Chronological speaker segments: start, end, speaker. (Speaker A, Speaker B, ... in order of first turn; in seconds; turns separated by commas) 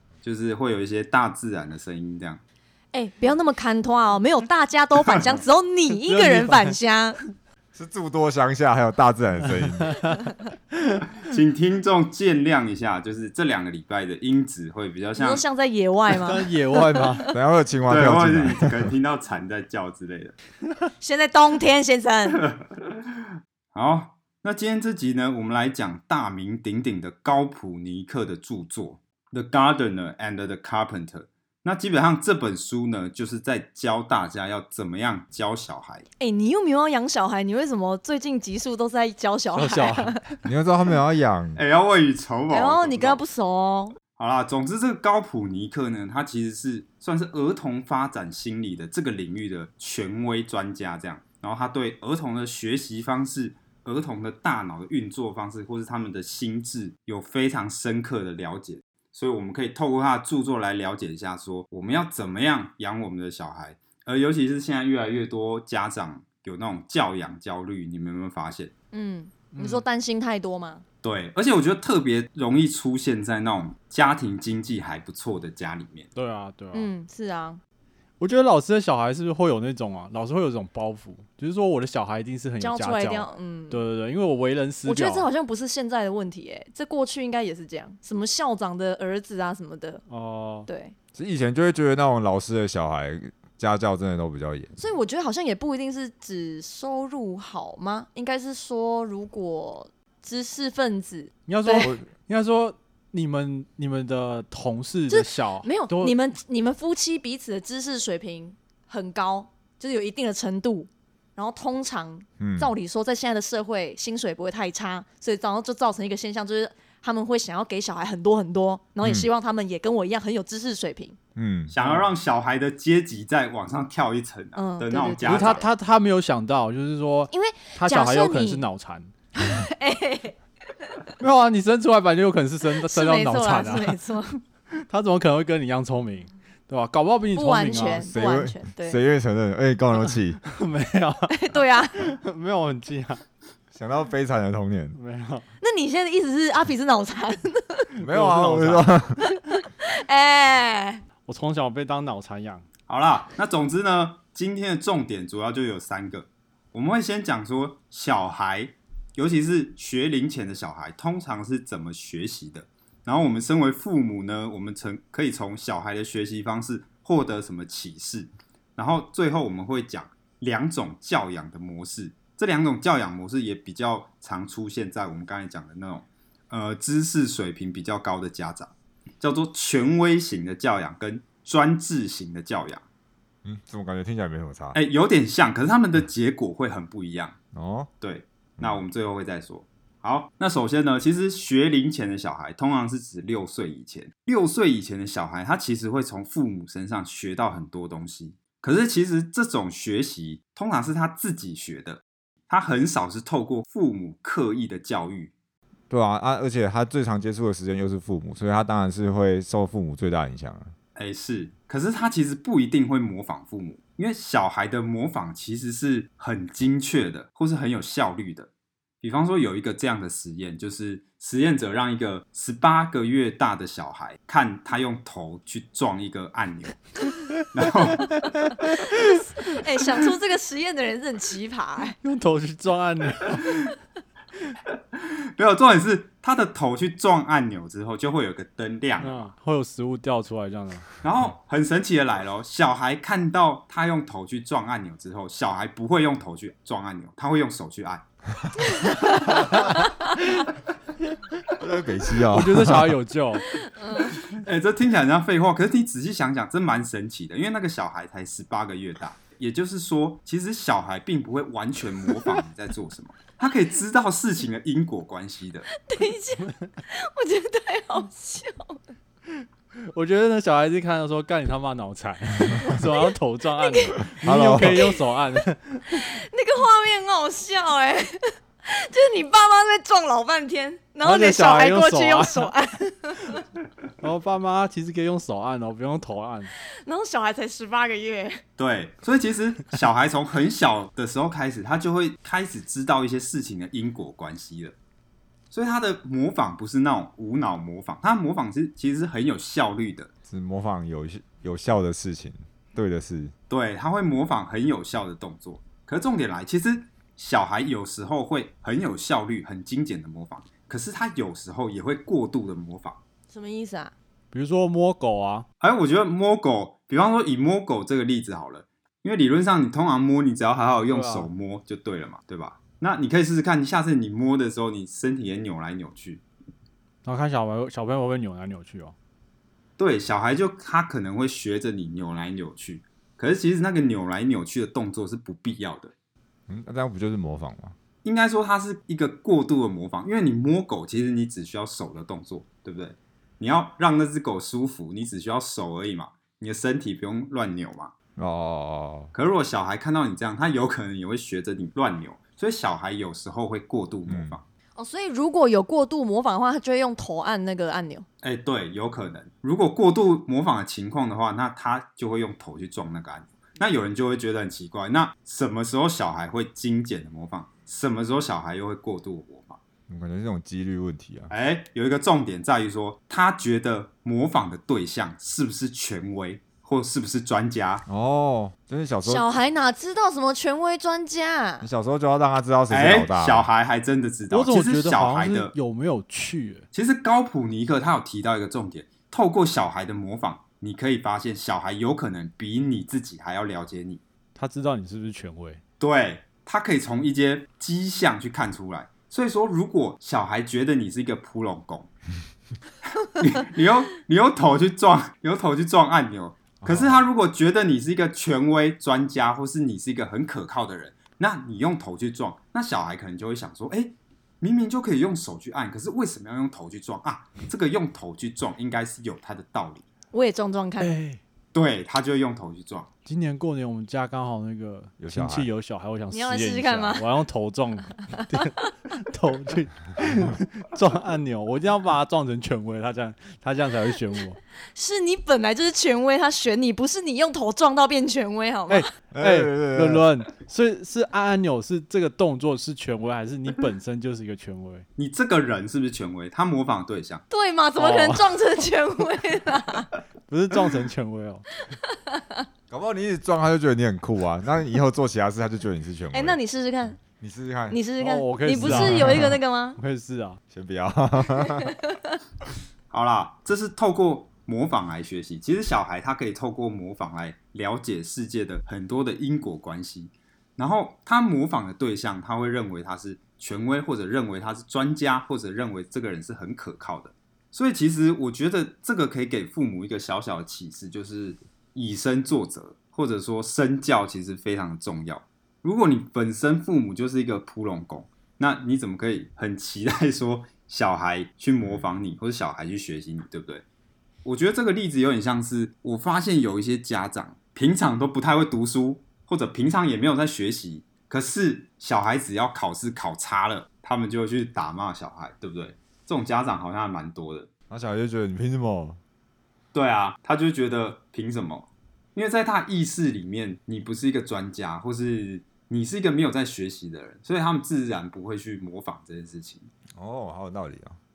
Speaker A: 0.2-2.4, Speaker B: 2.9-7.2, Speaker C: 6.1-6.8, Speaker D: 7.7-10.1, Speaker A: 11.2-15.4, Speaker B: 15.2-17.3, Speaker C: 16.1-17.3, Speaker D: 17.3-18.9, Speaker A: 17.9-20.3, Speaker B: 21.0-22.4, Speaker A: 22.4-22.8, Speaker A: 23.7-36.0, Speaker B: 36.2-40.4, Speaker C: 39.5-40.2, Speaker D: 40.4-41.6, Speaker A: 41.5-43.2, Speaker B: 42.5-44.0, Speaker A: 44.2-68.7, Speaker B: 68.9-70.8, Speaker C: 69.5-69.8, Speaker A: 71.0-76.1, Speaker C: 76.1-76.9, Speaker B: 76.7-77.6, Speaker C: 78.2-85.3, Speaker B: 82.6-83.9, Speaker B: 84.8-90.0, Speaker C: 90.1-90.7, Speaker B: 90.7-90.9, Speaker D: 91.1-94.8, Speaker B: 94.8-101.9, Speaker C: 101.5-106.1, Speaker D: 101.8-102.0, Speaker B: 105.1-121.2, Speaker D: 112.4-112.7, Speaker D: 119.0-119.3, Speaker D: 121.3-121.7, Speaker A: 121.7-125.7, Speaker C: 121.8-122.1, Speaker B: 124.5-125.6, Speaker C: 125.2-129.1, Speaker B: 127.3-128.7, Speaker B: 129.3-130.3, Speaker C: 131.2-134.0, Speaker B: 132.7-134.4, Speaker C: 134.8-138.1, Speaker B: 137.3-139.0, Speaker D: 138.0-140.4, Speaker C: 140.5-143.2, Speaker B: 141.3-142.1, Speaker D: 143.7-145.0, Speaker C: 144.9-145.4, Speaker B: 145.6-147.9, Speaker C: 147.9-148.9, Speaker D: 148.0-149.2, Speaker B: 149.2-151.0, Speaker C: 151.2-152.7, Speaker A: 152.9-182.8, Speaker D: 183.4-184.8, Speaker A: 184.7-187.3, Speaker D: 187.5-187.9, Speaker A: 188.0-205.3, Speaker D: 205.9-210.7, Speaker A: 210.9-218.5, Speaker A: 219.0-226.8, Speaker A: 227.4-228.1, Speaker C: 228.4-229.2, Speaker B: 228.6-231.9, Speaker C: 232.0-233.6, Speaker A: 234.9-239.3, Speaker C: 239.0-240.9, Speaker A: 241.0-248.0, Speaker B: 249.2-249.9, Speaker D: 251.5-253.0, Speaker C: 252.3-253.5, Speaker B: 253.5-254.2, Speaker A: 254.2-265.7, Speaker B: 262.1-262.4, Speaker B: 265.8-268.8, Speaker C: 269.9-276.1, Speaker B: 272.7-273.1, Speaker B: 273.6-274.1, Speaker D: 274.2-274.9, Speaker B: 275.9-283.4, Speaker C: 281.0-282.5, Speaker C: 284.0-286.5, Speaker B: 286.8-288.4, Speaker A: 288.6-294.7, Speaker A: 295.5-300.1, Speaker D: 300.3-303.3, Speaker A: 303.5-313.0, Speaker B: 313.3-313.9, Speaker C: 314.3-315.4, Speaker A: 315.6-326.2, Speaker C: 320.9-321.3, Speaker C: 327.0-328.9, Speaker A: 329.8-335.9, Speaker D: 336.5-337.7, Speaker A: 338.0-347.9, Speaker D: 348.1-349.1, Speaker A: 349.1-354.4, Speaker D: 354.1-354.4, Speaker B: 354.8-358.1, Speaker A: 358.2-369.6, Speaker D: 369.9-371.3, Speaker A: 371.3-377.8, Speaker D: 377.9-379.3, Speaker B: 379.0-381.7, Speaker D: 381.6-383.5, Speaker A: 382.7-385.5, Speaker C: 384.3-386.6, Speaker A: 386.7-394.0, Speaker C: 394.4-395.6, Speaker A: 395.8-401.9, Speaker A: 403.1-419.8, Speaker D: 406.6-407.0, Speaker B: 420.1-420.9, Speaker C: 420.8-421.2, Speaker A: 421.5-422.9, Speaker C: 423.0-434.4, Speaker D: 425.0-425.5, Speaker B: 426.1-427.1, Speaker B: 434.7-438.9, Speaker C: 438.7-444.9, Speaker D: 439.1-440.0, Speaker A: 445.0-447.2, Speaker B: 447.3-449.9, Speaker C: 447.8-448.4, Speaker C: 450.3-451.4, Speaker B: 451.7-452.4, Speaker D: 452.7-456.4, Speaker B: 456.1-457.0, Speaker D: 457.0-457.8, Speaker B: 457.7-459.8, Speaker C: 458.0-460.4, Speaker D: 458.6-459.4, Speaker D: 460.5-461.8, Speaker B: 461.6-462.0, Speaker A: 462.9-493.6, Speaker D: 491.6-491.9, Speaker A: 494.2-507.5, Speaker D: 507.7-509.0, Speaker A: 509.7-519.7, Speaker D: 519.9-521.0